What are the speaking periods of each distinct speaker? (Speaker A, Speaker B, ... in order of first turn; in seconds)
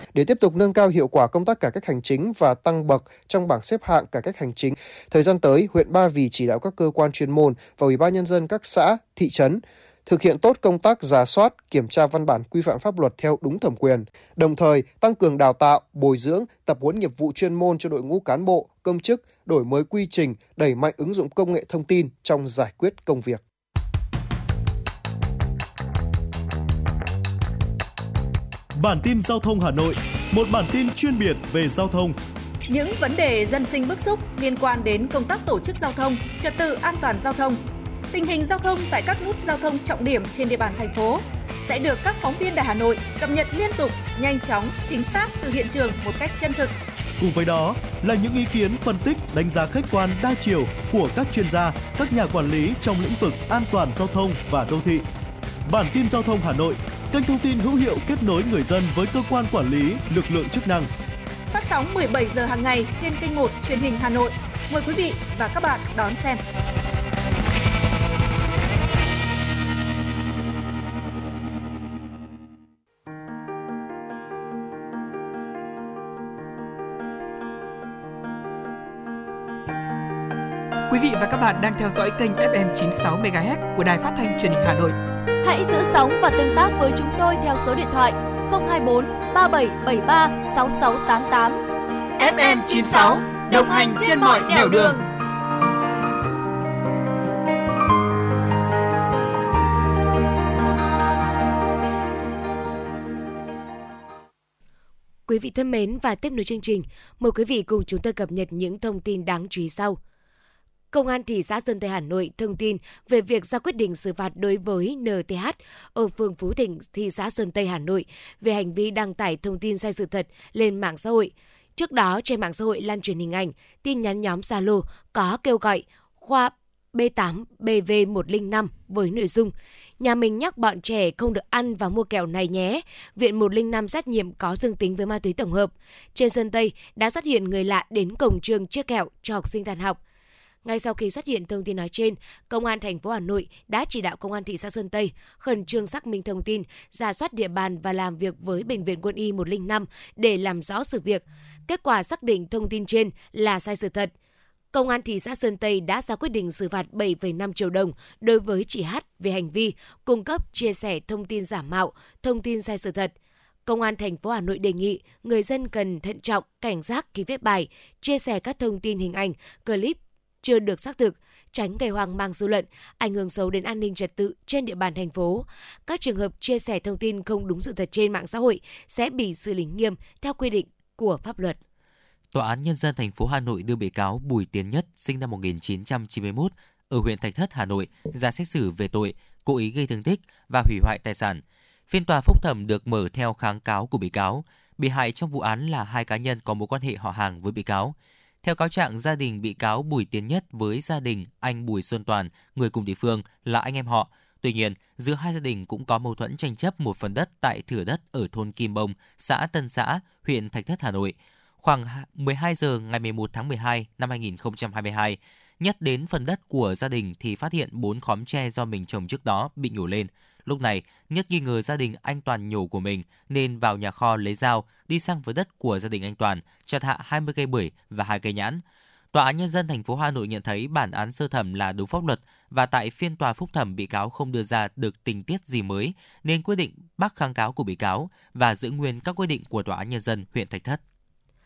Speaker A: 0.1-23.4
Speaker B: 28.8-32.2, 47.2-55.0, 55.6-60.9
Speaker C: 32.7-37.6, 38.1-46.7, 61.5-66.4, 92.2-95.0
Speaker D: 80.9-85.0
Speaker E: 85.4-91.6, 92.4-95.0
Speaker F: 105.3-110.0, 110.9-140.0, 140.6-154.1, 154.7-163.1, 163.7-181.6
Speaker G: 182.3-240.8